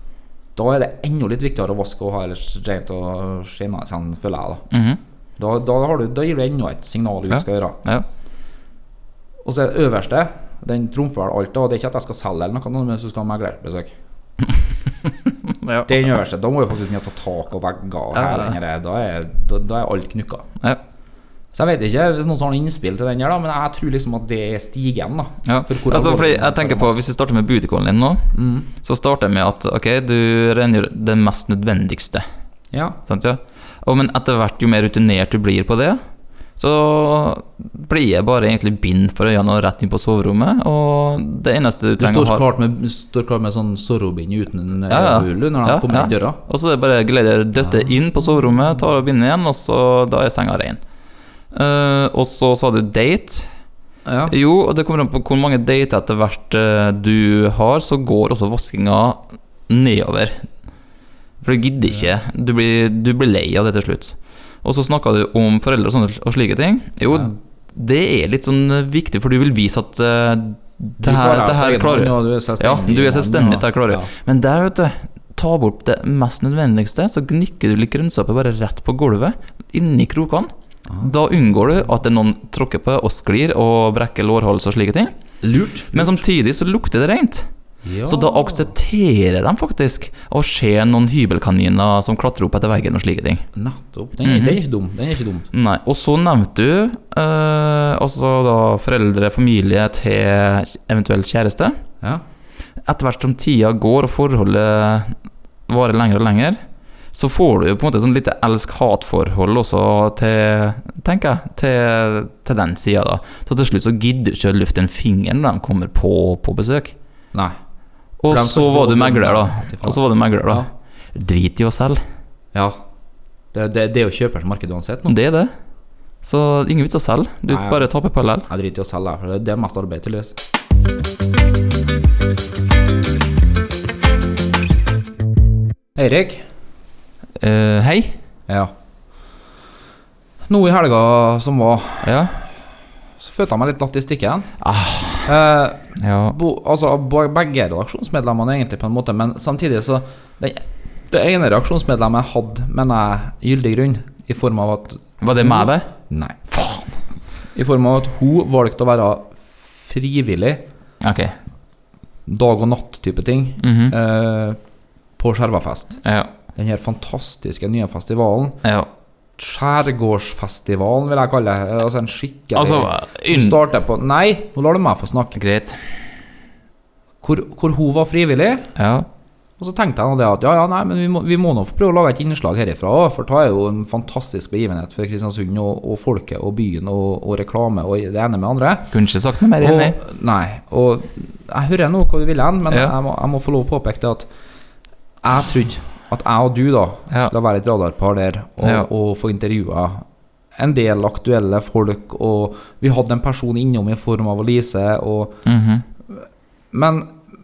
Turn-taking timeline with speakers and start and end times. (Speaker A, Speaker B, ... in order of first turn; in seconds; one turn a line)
Speaker A: 0.5-4.7
Speaker B: 4.7-5.0
Speaker A: 5.4-7.8
Speaker B: 7.3-8.1
Speaker A: 9.4-13.9
Speaker B: 15.0-16.1
Speaker A: 15.8-20.5
Speaker B: 18.1-18.6
Speaker A: 21.5-26.9
Speaker B: 25.4-32.2
Speaker A: 28.3-28.7
Speaker A: 32.7-33.0
Speaker B: 33.0-42.4
Speaker A: 42.0-46.4
Speaker B: 44.9-50.8
Speaker A: 47.6-48.0
Speaker B: 51.5-53.7
Speaker A: 54.0-54.3
Speaker B: 54.3-85.2
Speaker A: 61.8-62.1
Speaker A: 71.0-74.1
Speaker A: 80.8-81.1
Speaker A: 85.4-86.2
Speaker B: 85.9-93.5
Speaker A: 87.8-88.7
Speaker A: 93.5-95.5
Speaker B: 94.2-94.6
Speaker B: 95.5-101.8
Speaker B: 102.8-117.0
Speaker A: 117.3-117.6
Speaker A: 118.2-120.7
Speaker B: 118.2-122.0
Speaker A: 122.5-122.8
Speaker A: 123.5-125.1
Speaker B: 125.0-125.5
Speaker B: 126.2-128.5
Speaker A: 127.5-127.9
Speaker A: 128.4-130.3
Speaker A: 135.9-136.4
Speaker B: 137.4-138.2
Speaker A: 138.5-139.2
Speaker A: 140.5-142.5
Speaker B: 142.0-142.3
Speaker A: 143.2-144.6
Speaker B: 144.6-145.3
Speaker A: 145.2-156.4
Speaker B: 146.0-146.3
Speaker B: 155.2-156.9
Speaker A: 157.5-160.7
Speaker B: 161.0-161.4
Speaker A: 162.2-168.6
Speaker B: 163.6-163.9
Speaker B: 166.0-166.3
Speaker A: 169.4-175.4
Speaker B: 172.5-173.6
Speaker B: 175.3-175.8
Speaker A: 177.2-178.7
Speaker B: 178.8-179.1
Speaker A: 179.6-188.9
Speaker B: 188.9-190.0
Speaker A: 189.6-194.3
Speaker A: 195.2-205.4
Speaker B: 198.6-198.9
Speaker B: 205.4-205.8
Speaker A: 206.1-207.3